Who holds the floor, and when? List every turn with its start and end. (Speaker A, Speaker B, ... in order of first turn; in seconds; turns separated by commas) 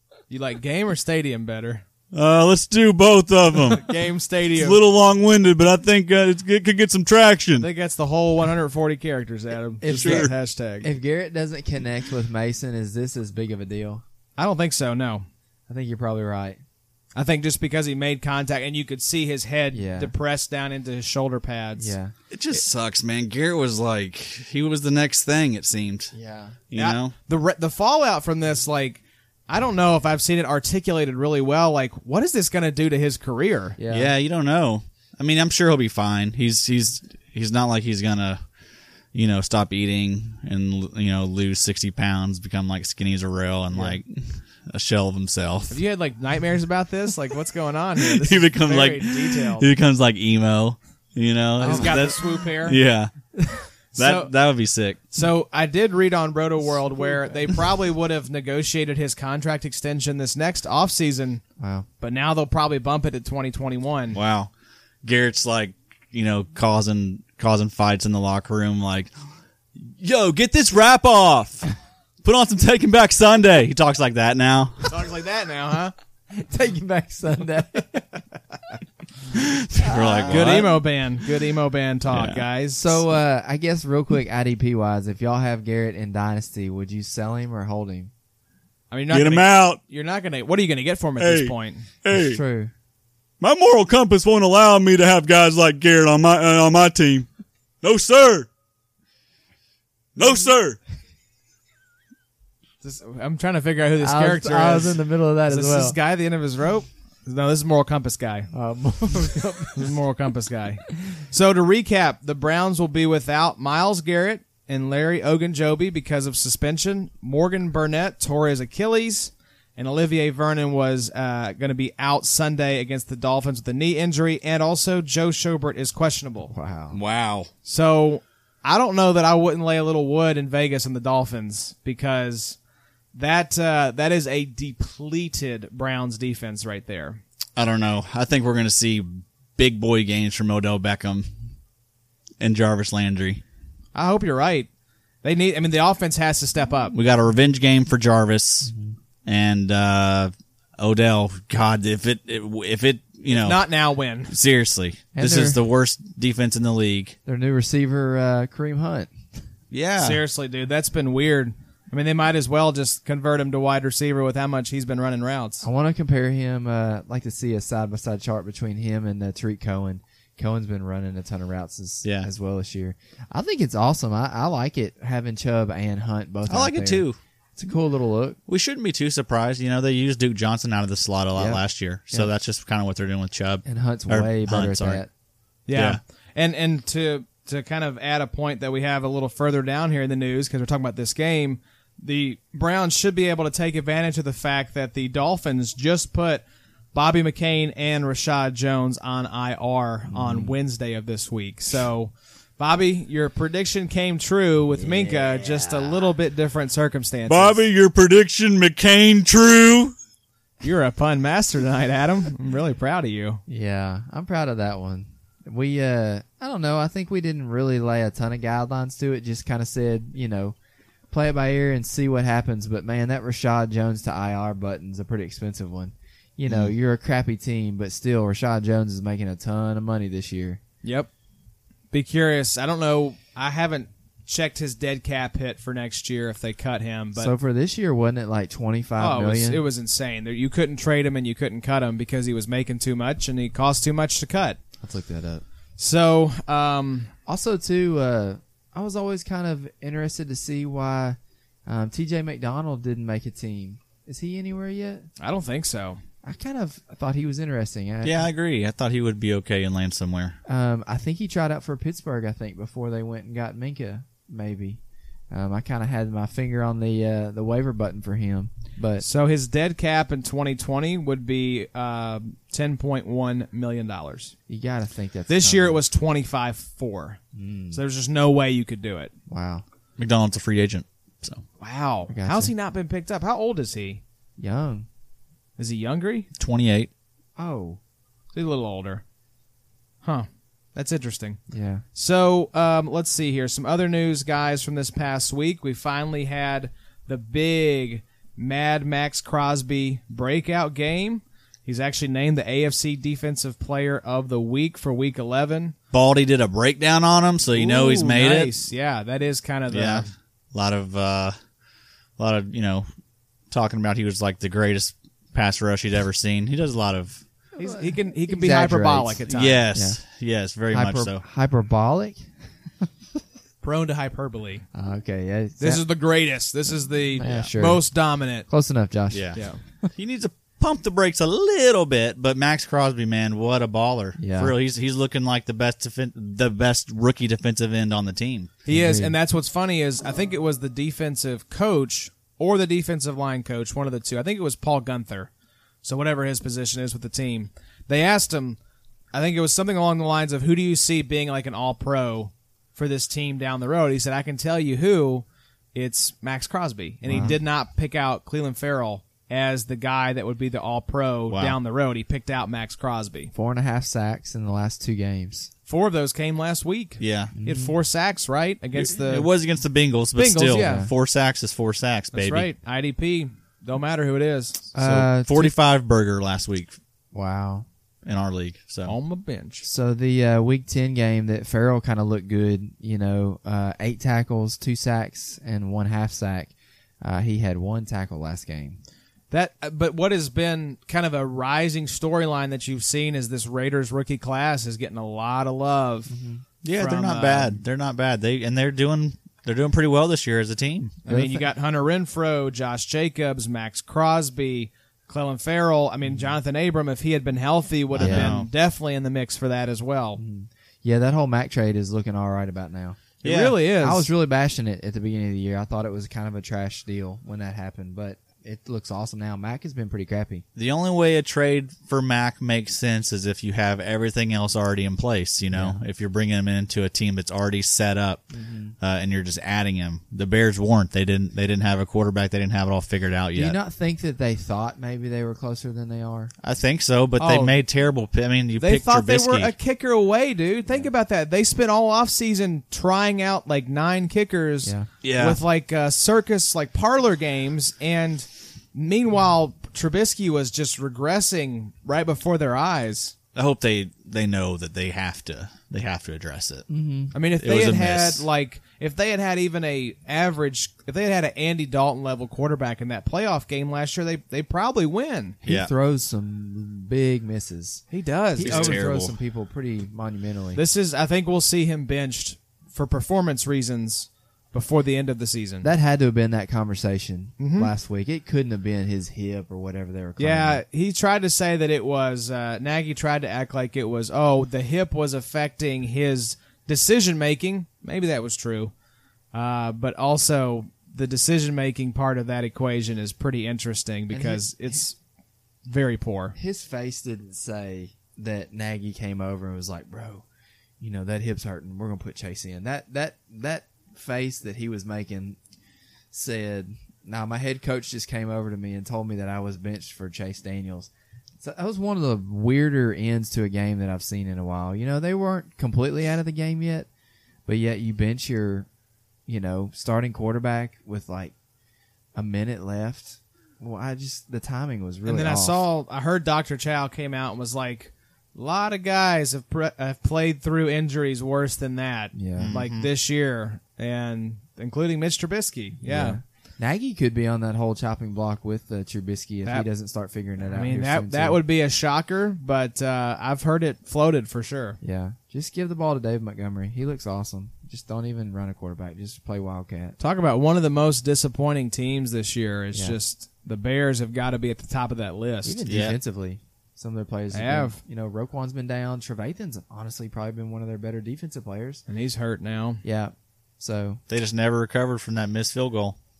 Speaker A: 0.3-1.8, Speaker B: 2.1-3.8, Speaker A: 3.8-4.8, Speaker B: 4.6-7.7, Speaker A: 7.6-10.9, Speaker C: 9.8-14.0, Speaker B: 9.9-10.3, Speaker A: 14.4-15.3, Speaker C: 15.7-16.6, Speaker A: 17.1-21.9, Speaker C: 19.7-20.1, Speaker C: 21.8-22.6, Speaker B: 22.3-26.1, Speaker C: 26.1-26.6, Speaker B: 26.7-27.1, Speaker A: 26.7-33.8, Speaker C: 33.8-34.1, Speaker B: 33.9-38.4, Speaker B: 39.1-45.8, Speaker A: 45.7-49.7, Speaker B: 48.0-53.1, Speaker A: 51.6-52.8, Speaker C: 51.6-52.0, Speaker A: 53.9-54.3, Speaker B: 54.0-55.0, Speaker A: 55.1-61.4, Speaker C: 57.1-57.4, Speaker C: 61.6-61.9, Speaker A: 62.0-64.2, Speaker B: 64.1-64.5, Speaker B: 65.0-69.1, Speaker B: 69.8-71.7, Speaker B: 72.2-74.9, Speaker A: 74.9-75.9, Speaker C: 76.3-78.2, Speaker B: 79.3-80.8, Speaker C: 79.8-80.7, Speaker A: 80.2-83.0, Speaker B: 82.1-82.4, Speaker C: 82.8-88.1, Speaker A: 88.9-91.9, Speaker B: 89.1-89.8, Speaker B: 91.2-92.4, Speaker C: 92.1-92.7, Speaker B: 93.4-97.3, Speaker B: 97.8-98.5, Speaker B: 100.2-100.8, Speaker A: 102.8-108.5, Speaker C: 104.0-106.0, Speaker C: 108.5-109.9, Speaker A: 109.8-126.5, Speaker C: 126.5-127.0, Speaker B: 126.9-127.5, Speaker A: 127.7-132.6, Speaker A: 133.1-137.2, Speaker B: 137.6-141.3, Speaker B: 142.4-143.4, Speaker A: 143.9-144.7, Speaker A: 145.2-146.9, Speaker B: 146.9-148.7, Speaker C: 148.7-148.9, Speaker B: 149.2-153.6, Speaker A: 153.3-154.3, Speaker B: 154.3-157.2, Speaker C: 155.2-155.6, Speaker C: 157.3-159.1, Speaker B: 159.7-160.2, Speaker A: 160.0-165.7, Speaker C: 165.6-178.4, Speaker B: 176.5-177.2, Speaker B: 178.5-185.0, Speaker C: 181.4-182.3, Speaker C: 183.7-185.1, Speaker A: 185.7-207.6, Speaker B: 185.8-186.0, Speaker C: 200.1-200.6, Speaker C: 204.8-206.0, Speaker B: 207.3-209.9, Speaker A: 210.6-213.4, Speaker C: 213.5-220.6, Speaker C: 221.1-230.6, Speaker B: 226.5-226.8, Speaker A: 230.8-231.1, Speaker A: 231.9-237.3, Speaker C: 237.2-239.6, Speaker A: 239.0-244.6, Speaker C: 244.8-245.4, Speaker A: 245.8-247.1, Speaker C: 247.3-255.1, Speaker A: 255.2-256.0, Speaker C: 256.2-258.3, Speaker B: 258.0-260.4, Speaker C: 260.5-269.0, Speaker A: 269.0-274.3, Speaker C: 274.5-275.8, Speaker A: 275.3-277.2, Speaker C: 277.4-277.8, Speaker A: 277.7-279.1, Speaker C: 279.3-279.6, Speaker B: 280.0-281.4, Speaker A: 281.6-284.0, Speaker C: 282.1-282.5, Speaker C: 284.4-284.9, Speaker A: 285.6-286.3, Speaker B: 286.4-286.9, Speaker C: 287.4-287.8, Speaker A: 288.3-289.0, Speaker A: 290.0-291.4, Speaker C: 291.5-291.9, Speaker A: 291.9-305.8, Speaker B: 305.9-308.6, Speaker A: 307.5-310.1, Speaker B: 309.7-311.4, Speaker B: 312.2-312.9, Speaker B: 313.5-317.2, Speaker A: 317.6-319.7, Speaker C: 317.6-320.0, Speaker B: 319.3-321.2, Speaker C: 320.7-322.3, Speaker A: 323.6-324.7, Speaker C: 324.7-325.8, Speaker A: 325.6-328.5, Speaker C: 327.2-327.9, Speaker C: 328.5-329.9, Speaker B: 329.1-329.4, Speaker A: 329.3-329.6, Speaker B: 330.0-338.5, Speaker C: 334.2-334.5, Speaker C: 338.7-339.1, Speaker A: 338.7-345.3, Speaker A: 345.8-348.6, Speaker A: 349.1-363.3, Speaker C: 357.1-357.4, Speaker B: 361.3-361.6, Speaker C: 363.3-365.5, Speaker A: 365.7-369.3, Speaker B: 367.0-367.3, Speaker C: 367.4-367.7, Speaker B: 368.7-372.5, Speaker A: 370.1-370.9, Speaker C: 370.6-370.9, Speaker A: 372.1-375.1, Speaker C: 374.8-375.6, Speaker B: 374.9-376.8, Speaker C: 377.1-377.7, Speaker B: 378.1-378.9, Speaker A: 378.9-379.6, Speaker C: 379.6-388.8, Speaker A: 389.3-396.1, Speaker C: 396.1-396.4, Speaker B: 396.6-400.9, Speaker A: 396.7-397.6, Speaker A: 401.0-410.2, Speaker C: 401.1-401.5, Speaker C: 407.9-408.4, Speaker B: 408.0-408.5, Speaker C: 410.2-413.1, Speaker A: 413.2-414.1, Speaker B: 413.2-413.6, Speaker C: 413.7-420.4, Speaker B: 420.6-433.6, Speaker C: 425.5-425.8, Speaker C: 428.3-428.8, Speaker C: 433.4-436.3, Speaker B: 436.4-439.5, Speaker A: 437.2-437.6, Speaker A: 438.6-453.1, Speaker B: 445.0-445.4, Speaker B: 453.4-456.7, Speaker C: 456.7-457.1, Speaker A: 457.1-465.4, Speaker B: 457.4-458.3, Speaker C: 465.4-467.9, Speaker B: 465.4-465.7, Speaker A: 467.9-468.8, Speaker C: 468.4-470.6, Speaker B: 468.4-469.2, Speaker A: 470.6-475.7, Speaker C: 475.6-480.6, Speaker A: 477.4-477.7, Speaker A: 480.2-488.7, Speaker A: 489.3-495.0, Speaker C: 494.1-494.8, Speaker A: 495.7-496.4, Speaker C: 496.4-500.2, Speaker C: 500.8-505.4, Speaker C: 506.1-510.9, Speaker C: 511.4-516.9, Speaker C: 517.5-518.7, Speaker C: 519.3-521.3, Speaker C: 522.1-525.7, Speaker A: 525.1-536.2, Speaker C: 532.1-532.6, Speaker B: 532.4-532.9, Speaker C: 535.9-541.4, Speaker A: 540.4-544.8, Speaker C: 544.8-550.0, Speaker A: 550.0-555.6, Speaker C: 555.4-561.8, Speaker B: 555.7-556.0, Speaker A: 557.3-557.8, Speaker A: 561.9-562.8, Speaker C: 562.8-564.0, Speaker B: 564.1-566.0